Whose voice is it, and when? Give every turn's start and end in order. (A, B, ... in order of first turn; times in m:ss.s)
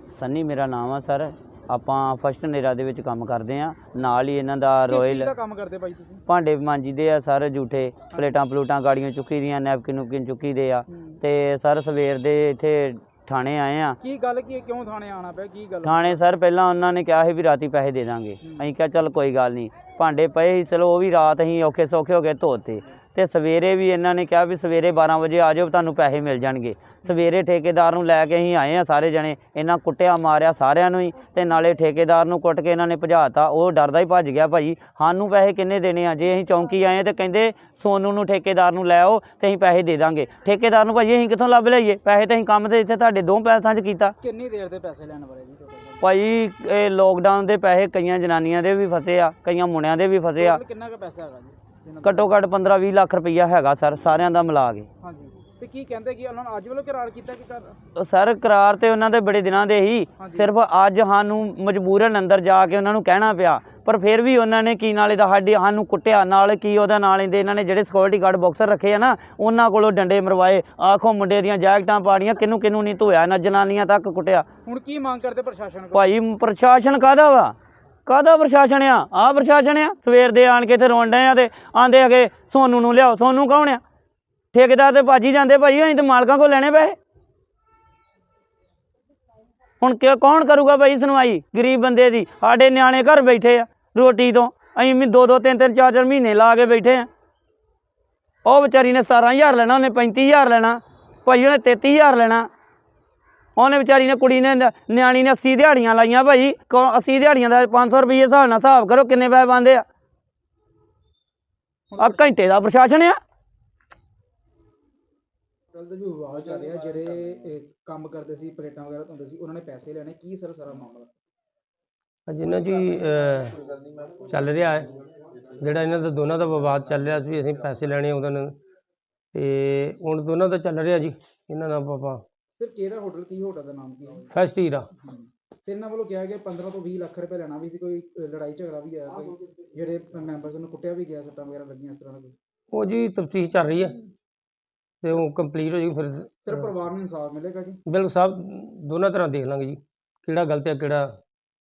0:00.2-0:05.4 A
0:04.9-0:06.2 B
0:06.3-0:14.0 A
0:14.0-0:16.2 B
0:15.8-0:44.1 A
0:18.4-0:18.7 B
0:44.2-0:46.0 B
0:46.0-0:50.6 A
0:50.4-0:52.4 B
0:52.0-0:54.9 A
0:55.0-0:57.8 B
0:58.0-1:14.5 A
1:00.2-1:00.5 B
1:14.7-1:16.1 B
1:15.9-1:17.6 A
1:18.1-1:23.8 A
1:24.5-1:27.0 A
1:29.8-1:37.1 A
1:38.4-1:42.5 A
1:43.6-1:49.8 A
1:51.9-1:52.2 B
1:52.0-1:53.2 A
1:55.7-2:01.1 B
2:02.3-2:03.6 C
2:04.3-2:08.6 C
2:09.3-2:12.2 C
2:12.5-2:14.3 B
2:14.3-2:14.9 C
2:15.0-2:22.3 B
2:22.7-2:24.1 C
2:25.0-2:26.7 C
2:26.5-2:27.8 B
2:27.9-2:31.2 C